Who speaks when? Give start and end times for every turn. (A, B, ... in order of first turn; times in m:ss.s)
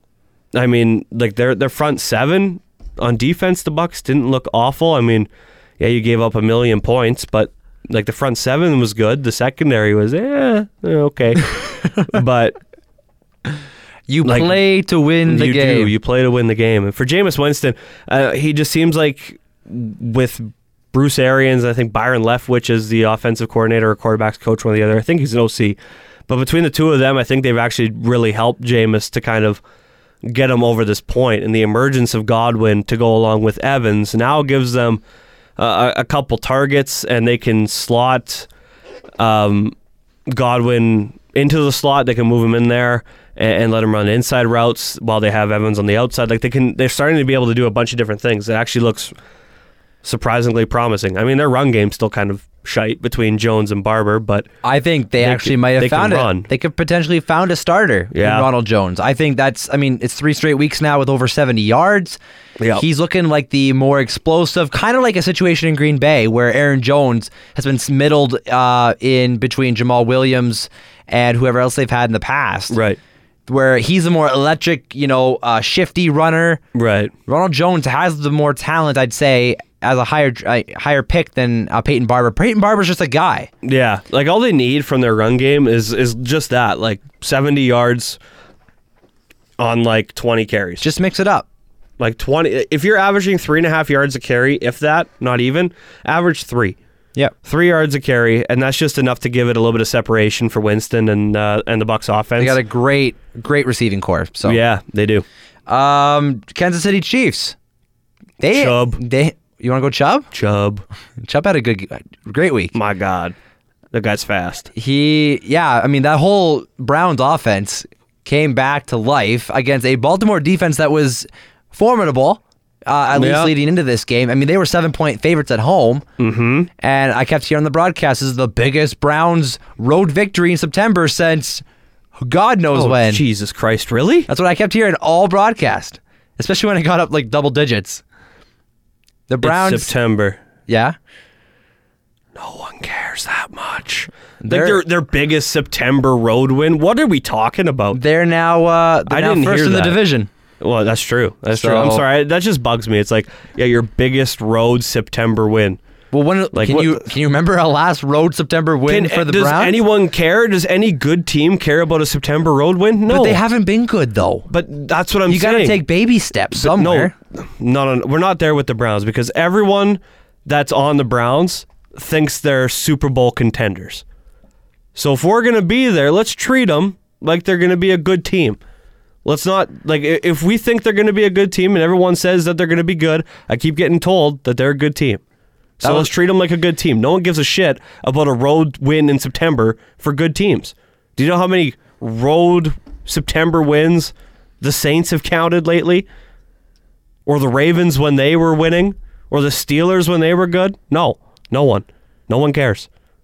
0:00.5-0:12.6 A
0:14.1-0:15.9 B
0:14.2-0:14.6 A
0:15.3-0:25.8 A
0:26.3-0:29.6 A
0:30.2-0:35.0 A
0:35.6-0:38.5 A
0:39.2-0:39.8 A
0:40.3-0:49.1 A
0:50.0-0:54.5 A
0:54.6-1:02.2 B
0:55.2-0:56.5 A
0:58.1-0:58.5 A
1:02.6-1:02.8 A
1:02.8-1:12.8 B
1:12.7-1:13.0 A
1:13.5-1:16.6 B
1:16.7-1:17.1 A
1:17.3-1:23.5 B
1:23.6-1:28.2 A
1:29.6-1:30.9 A
1:30.8-1:31.5 B
1:32.0-1:36.8 A
1:37.4-1:42.6 A
1:42.4-1:44.6 B
1:44.4-1:45.2 A
1:45.7-1:47.6 B
1:48.4-1:50.3 B
1:48.5-1:49.0 A
1:50.3-1:50.8 A
1:51.2-1:52.7 B
1:52.7-1:53.4 A
1:53.9-1:54.7 A
1:54.8-2:06.0 B
2:03.1-2:03.5 A
2:06.2-2:06.7 A
2:06.8-2:11.6 B
2:12.2-2:13.2 B
2:12.7-2:14.3 A
2:14.3-2:18.0 B
2:19.3-2:19.9 B
2:19.4-2:20.4 A
2:20.7-2:21.0 B
2:22.4-2:28.0 A
2:24.4-2:24.8 B
2:27.9-2:30.3 B
2:29.1-2:30.0 A
2:30.6-2:35.8 A
2:31.5-2:32.1 B
2:36.1-2:39.8 B
2:36.5-2:37.0 A
2:38.9-2:43.4 A
2:43.1-2:44.5 B
2:44.5-2:45.8 A
2:45.3-2:47.1 B
2:46.6-2:54.0 A
2:55.0-2:58.6 A
2:59.2-3:05.2 A
3:05.8-3:06.1 B
3:05.8-3:16.1 A
3:17.3-3:22.9 A